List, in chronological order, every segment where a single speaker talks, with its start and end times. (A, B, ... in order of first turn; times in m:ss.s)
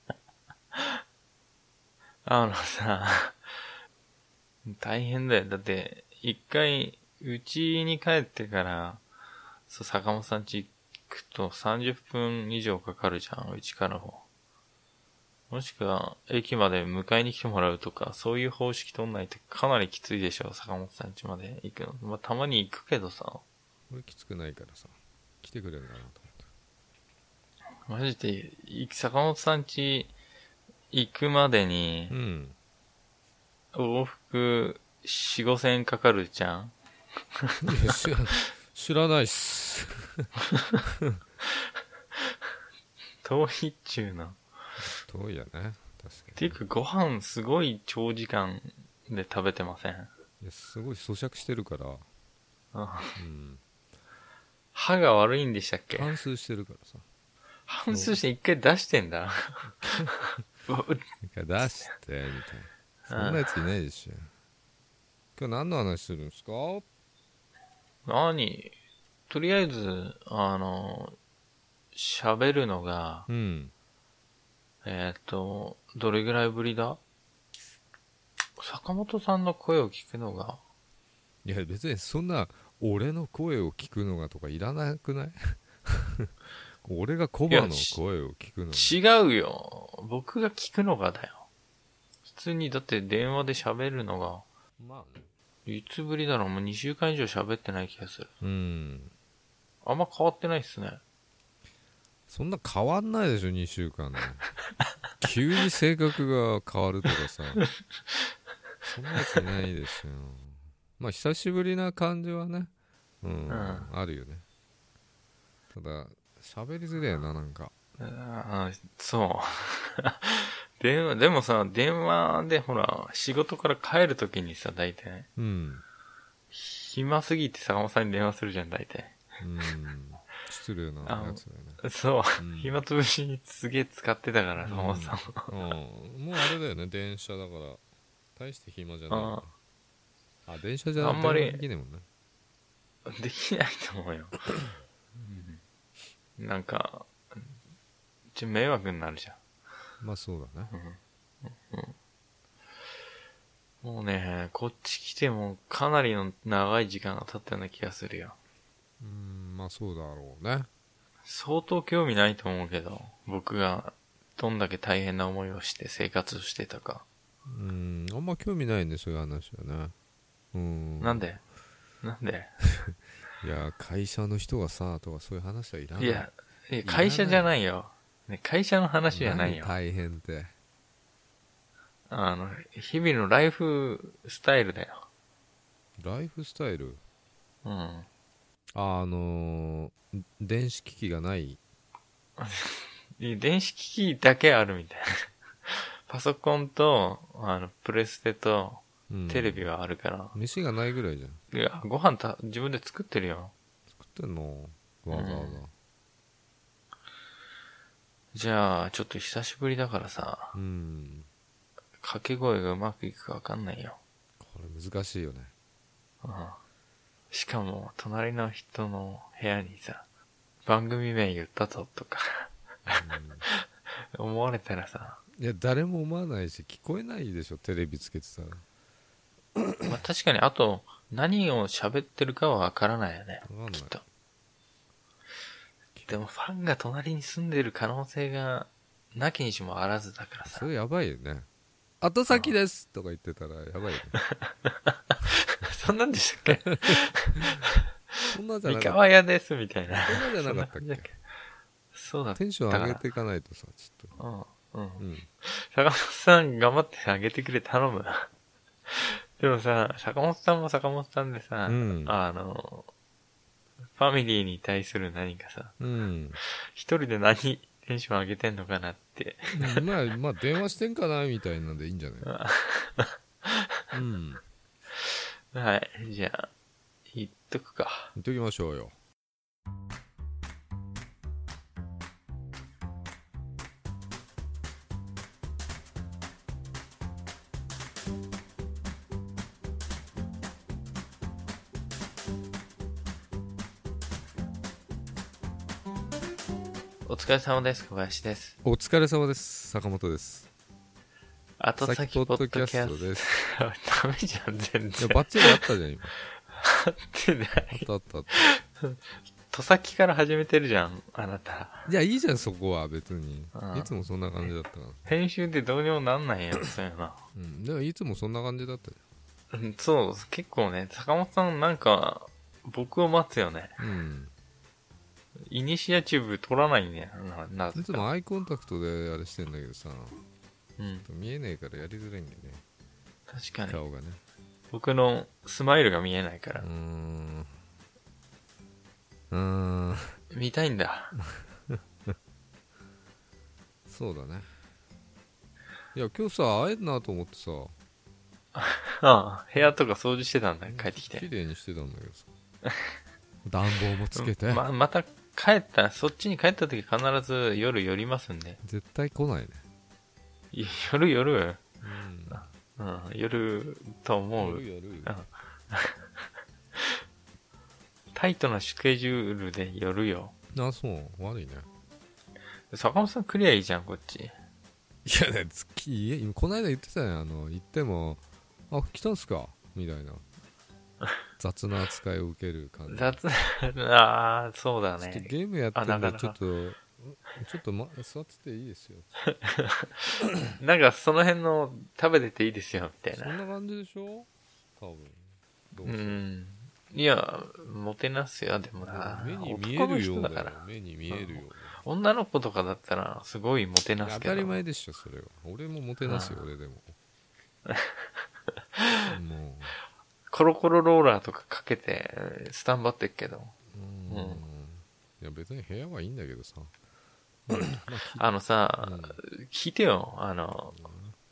0:00.7-0:01.0 A
0:02.2-0:03.5 A
0:04.6-0:09.0 A
0:09.7-0:14.2 A
0:15.5-0:23.4 A
0:23.9-0:26.5 B
0:27.9-0:30.1 A
0:30.9-0:32.1 A
0:32.1-0:32.6 B
0:33.7-0:36.7 A
0:37.4-0:38.0 A
0:37.6-0:40.3 B
0:40.5-0:40.8 A
0:40.8-0:41.2 B
0:43.2-0:44.4 A
0:44.8-0:46.6 B
0:46.4-0:50.1 A
0:50.4-0:52.0 B
0:52.7-0:53.2 A
0:53.2-0:53.6 B
0:54.7-0:56.1 A
0:55.9-0:57.0 B
0:57.7-1:01.0 A
0:57.9-0:58.2 B
0:59.8-1:00.1 B
1:01.2-1:04.3 B
1:03.1-1:03.5 A
1:05.4-1:06.8 B
1:08.0-1:08.7 A
1:09.3-1:11.2 A
1:11.9-1:13.3 A
1:13.3-1:13.7 B
1:14.8-1:17.0 A
1:18.6-1:20.6 A
1:21.4-1:26.3 B
1:26.8-1:29.0 B
1:27.5-1:28.0 A
1:28.7-1:31.4 A
1:32.3-1:34.4 A
1:34.8-1:35.3 B
1:35.6-1:38.3 A
1:38.4-1:39.1 B
1:39.8-1:41.0 A
1:42.3-1:44.5 B
1:45.2-1:47.6 B
1:47.6-1:48.1 A
1:48.8-1:54.4 B
1:53.5-1:53.9 A
1:55.7-1:57.7 B
1:58.0-2:05.3 A
2:05.4-2:05.8 B
2:06.5-2:09.3 A
2:09.4-2:11.8 B
2:11.0-2:15.5 A
2:12.4-2:12.8 B
2:14.6-2:17.8 B
2:18.3-2:19.5 B
2:19.1-2:19.4 A
2:20.4-2:22.0 B
2:21.0-2:21.6 A
2:23.0-2:24.5 A
2:25.1-2:25.6 A
2:26.4-2:27.5 A
2:28.3-2:29.4 A
2:30.0-2:30.7 B
2:30.7-2:31.9 A
2:33.8-2:38.4 A
2:39.0-2:40.7 B
2:41.2-2:47.0 A
2:47.4-2:49.9 B
2:50.5-2:51.2 B
2:51.0-2:51.4 A
2:52.0-2:52.6 A
2:52.8-2:56.3 B
2:56.0-2:59.7 A
2:56.8-2:57.5 B
2:59.1-3:00.5 B
3:02.1-3:05.0 A
3:06.0-3:07.0 B
3:07.6-3:08.1 A
3:08.7-3:11.6 B
3:12.4-3:20.4 A
3:19.1-3:19.7 B
3:20.3-3:21.4 B
3:21.5-3:23.5 A
3:23.9-3:25.7 B
3:25.1-3:25.6 A
3:28.3-3:30.5 A
3:30.5-3:31.3 B
3:32.0-3:34.0 A
3:34.4-3:35.5 B
3:36.2-3:36.6 A
3:37.3-3:40.0 A
3:40.6-3:45.2 A
3:42.9-3:43.4 B
3:45.3-3:48.6 B
3:49.6-3:49.9 B
3:49.8-3:54.0 A
3:53.4-3:54.0 B
3:56.1-4:00.6 A
4:00.5-4:01.5 B
4:02.0-4:04.2 B
4:04.2-4:11.2 A
4:06.8-4:07.6 B
4:08.3-4:09.0 B
4:10.0-4:11.1 B
4:11.9-4:13.0 A
4:12.3-4:14.1 B
4:14.2-4:18.3 A
4:15.0-4:15.3 B
4:18.9-4:22.9 A
4:21.7-4:22.2 B
4:23.9-4:25.8 A
4:25.8-4:26.4 B
4:26.4-4:29.8 A
4:29.5-4:32.3 B
4:32.2-4:33.8 A
4:33.9-4:34.4 B
4:35.0-4:36.5 A
4:37.1-4:38.1 A
4:38.2-4:39.0 B
4:57.1-4:58.6 A
4:58.6-5:00.5 B
5:01.6-5:05.7 A
5:01.8-5:03.3 B
5:05.0-5:06.1 B
5:06.6-5:09.0 A
5:07.7-5:08.4 B
5:09.5-5:11.9 A
5:11.8-5:15.1 B
5:13.5-5:13.9 A
5:15.0-5:17.2 A
5:17.3-5:19.0 B
5:19.5-5:23.8 A
5:23.8-5:24.3 B
5:25.5-5:28.0 A
5:27.7-5:30.2 B
5:30.8-5:31.1 A
5:31.0-5:32.6 B
5:33.3-5:33.8 A
5:33.7-5:34.2 B
5:34.7-5:36.6 A
5:36.6-5:37.5 B
5:39.3-5:40.1 B
5:40.3-5:41.2 A
5:41.3-5:42.1 B
5:43.9-5:44.5 B
5:45.9-5:47.8 B
5:48.6-5:51.3 A
5:50.6-5:52.3 B
5:52.7-5:52.9 A
5:53.4-5:54.6 B
5:54.1-5:58.6 A
5:58.6-5:59.6 B
6:00.5-6:01.6 A
6:01.8-6:02.5 B
6:02.3-6:06.0 A
6:04.4-6:05.2 B
6:08.1-6:10.3 A
6:10.5-6:11.7 B
6:12.7-6:14.3 A
6:15.0-6:20.2 B
6:21.4-6:23.2 B
6:22.9-6:26.4 A
6:25.0-6:29.1 B
6:29.3-6:33.4 A
6:33.1-6:36.2 B
6:35.8-6:40.6 A
6:38.8-6:41.8 B
6:41.1-6:44.6 A
6:44.0-6:47.0 B
6:46.0-6:46.4 A
6:47.7-6:48.1 A
6:48.8-6:49.1 A
6:49.1-6:49.8 B
6:50.3-6:53.5 A
6:53.7-6:56.7 B
6:54.1-6:54.4 A
6:57.5-6:58.2 B
6:57.5-7:00.9 A
6:58.8-6:59.2 B
7:00.7-7:01.2 B